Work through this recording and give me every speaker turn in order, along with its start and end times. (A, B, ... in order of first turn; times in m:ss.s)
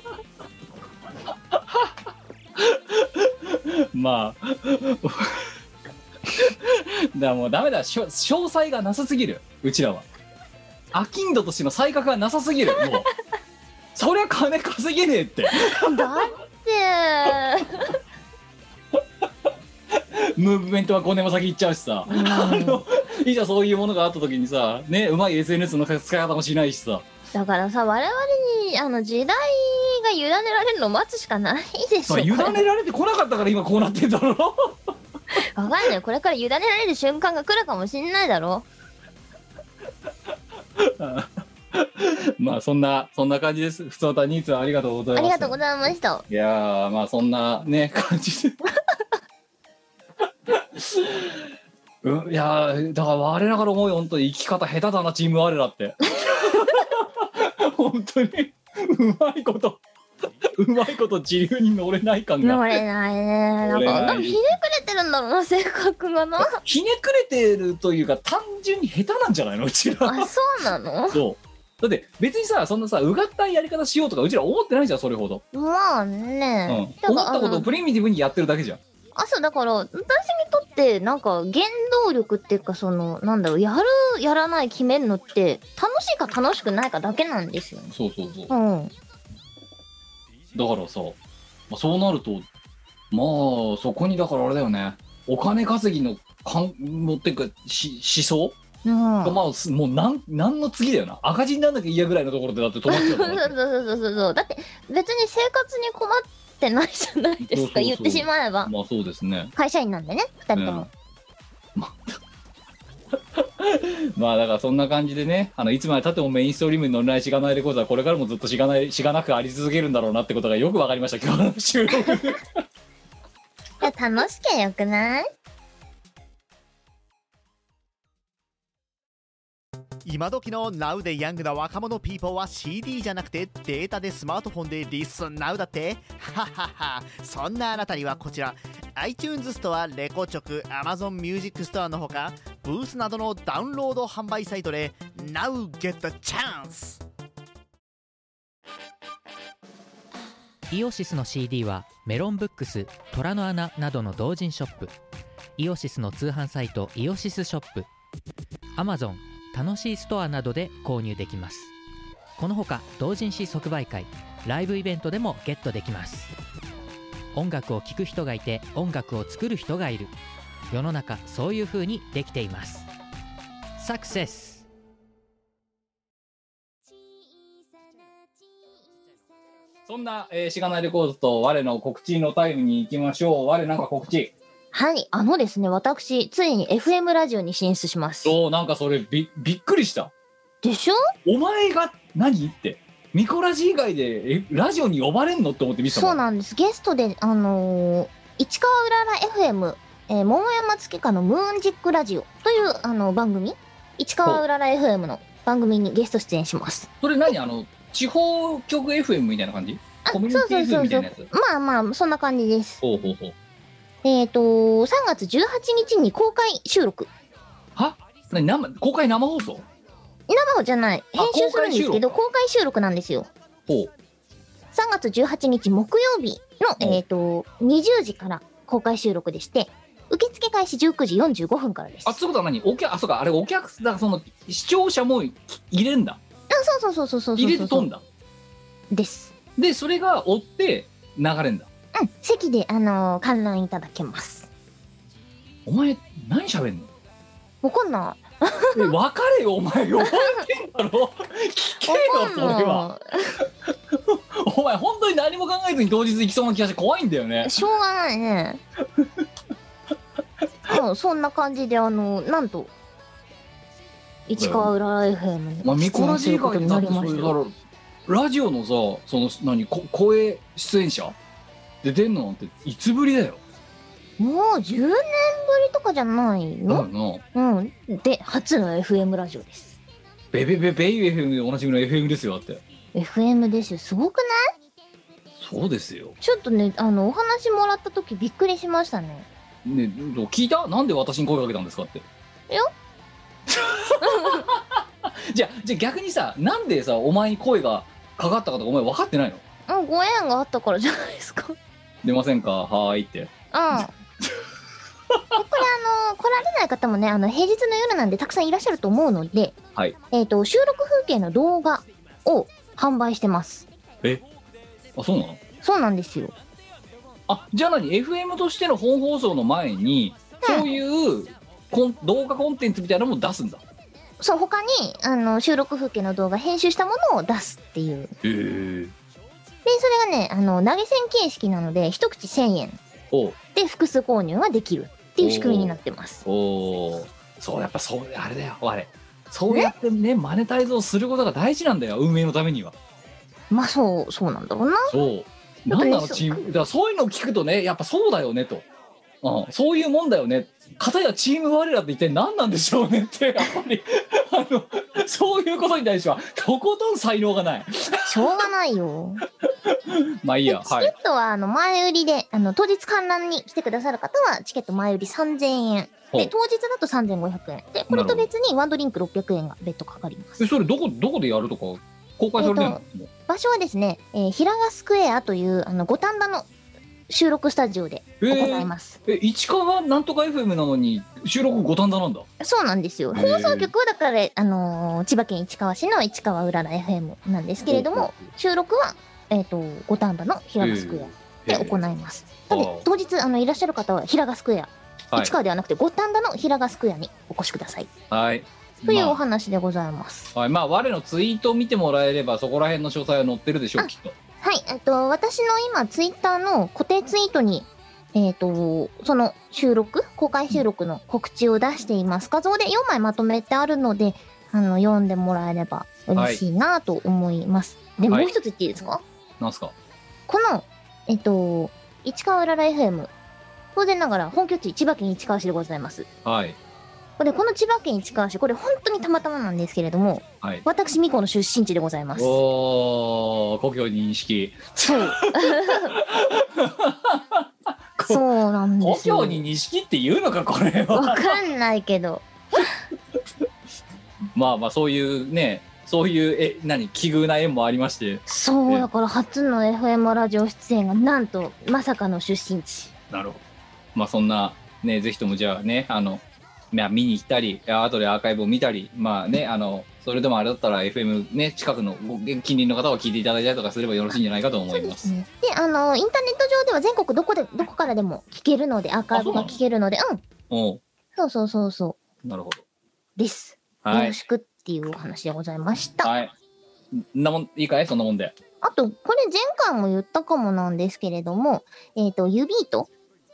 0:01.5-0:02.0 A
0:02.6-0:05.5 A
0:06.3-0:10.1 A
0:10.9-0:13.1 A
0:14.0-0:16.2 A
0:15.6-0:17.9 B
0:20.0-0:27.1 A
0:22.1-0:22.8 B
0:27.3-0:32.6 B
0:32.1-0:34.9 A
0:35.4-0:38.7 B
0:40.8-0:45.6 A
0:45.2-0:46.2 B
0:46.3-0:48.6 A
0:50.5-0:51.5 A
0:52.0-0:59.8 A
0:56.2-0:56.8 B
1:00.4-1:02.8 A
1:02.4-1:06.6 B
1:03.7-1:04.5 A
1:06.4-1:10.3 A
1:10.0-1:11.2 B
1:11.1-1:15.4 A
1:15.5-1:17.7 B
1:16.7-1:18.8 A
1:19.2-1:27.9 B
1:27.9-1:28.5 A
1:28.5-1:28.9 B
1:30.5-1:31.2 A
1:31.7-1:32.5 A
1:33.1-1:38.6 A
1:38.8-1:39.4 B
1:39.2-1:43.6 A
1:42.9-1:48.7 B
1:47.4-1:49.5 A
1:49.6-1:50.9 B
1:50.6-1:50.9 A
1:51.8-1:52.2 A
1:53.4-2:02.4 A
2:03.8-2:05.3 B
2:10.0-2:27.0 C
2:30.7-2:34.9 D
2:35.6-2:37.9 D
2:38.8-2:41.7 D
2:42.4-2:46.4 D
2:47.3-2:50.1 D
2:50.7-2:52.9 D
2:53.8-2:54.7 D
2:59.9-3:04.3 A
3:04.7-3:08.3 B
3:08.2-3:10.1 A
3:10.6-3:11.0 B
3:11.2-3:16.2 A
3:15.9-3:26.9 B
3:27.0-3:31.3 A
3:30.0-3:32.8 B
3:32.8-3:33.4 A
3:34.0-3:37.1 B
3:37.8-3:39.7 A
3:40.3-3:43.3 B
3:41.2-3:42.1 A
3:43.7-3:43.9 A
3:44.7-3:52.2 B
3:52.0-3:56.2 A
3:56.5-3:57.9 B
3:57.4-3:58.0 A
3:58.9-3:59.3 B
3:59.6-4:01.7 A
4:02.0-4:04.5 B
4:05.7-4:06.9 A
4:07.6-4:08.9 B
4:08.7-4:12.9 A
4:11.8-4:13.4 B
4:13.7-4:17.6 A
4:17.4-4:18.6 B
4:20.7-4:22.7 B
4:24.3-4:27.4 B
4:24.4-4:24.7 A
4:25.6-4:27.5 A
4:28.1-4:31.2 A
4:31.8-4:33.4 A
4:34.2-4:39.8 B
4:36.7-4:37.2 A
4:40.3-4:42.6 A
4:42.9-4:44.5 B
4:45.4-4:46.2 A
4:46.2-4:49.3 B
4:49.6-4:52.1 A
4:53.5-4:59.4 A
4:54.0-4:54.5 B
4:59.7-5:01.6 B
5:02.0-5:03.8 A
5:03.5-5:04.0 B
5:05.1-5:05.4 A
5:05.4-5:09.6 B
5:10.1-5:13.7 B
5:15.0-5:15.4 A
5:15.6-5:16.4 B
5:17.3-5:23.6 A
5:20.4-5:20.7 B
5:24.2-5:28.1 B
5:28.2-5:28.9 A
5:29.6-5:32.8 B
5:33.1-5:33.4 A
5:33.6-5:36.2 B
5:35.2-5:42.8 A
5:43.5-5:44.9 B
5:44.9-5:48.7 A
5:45.7-5:46.5 B
5:49.2-5:58.3 A
5:58.1-5:59.2 B
5:59.6-6:00.9 A
6:00.5-6:10.4 B
6:07.9-6:08.3 A
6:10.4-6:13.1 A
6:12.4-6:16.5 B
6:17.1-6:19.0 B
6:18.2-6:22.3 A
6:22.4-6:37.9 B
6:23.1-6:23.7 A
6:27.7-6:28.3 A
6:30.6-6:31.8 A
6:32.5-6:32.9 A
6:38.1-6:39.2 A
6:38.8-6:40.3 B
6:40.3-6:44.2 A
6:43.8-6:59.0 B
6:56.2-6:56.4 A
6:59.4-6:59.7 A
7:00.3-7:03.1 B
7:03.8-7:06.1 B
7:06.2-7:06.6 A
7:07.2-7:12.4 B
7:12.2-7:18.2 A
7:14.8-7:16.0 B
7:18.0-7:19.4 B
7:18.8-7:21.4 A
7:20.9-7:22.7 B
7:24.3-7:28.9 A
7:28.3-7:32.9 B
7:33.1-7:33.4 A
7:34.0-7:45.1 A
7:44.7-7:50.2 B
7:49.1-7:49.6 A
7:50.5-7:50.8 A
7:51.2-7:52.0 B
7:52.2-7:52.6 A
7:53.2-7:56.1 B
7:53.8-7:54.2 A
7:56.0-7:56.3 A
7:56.9-7:58.4 A
7:58.6-8:02.9 B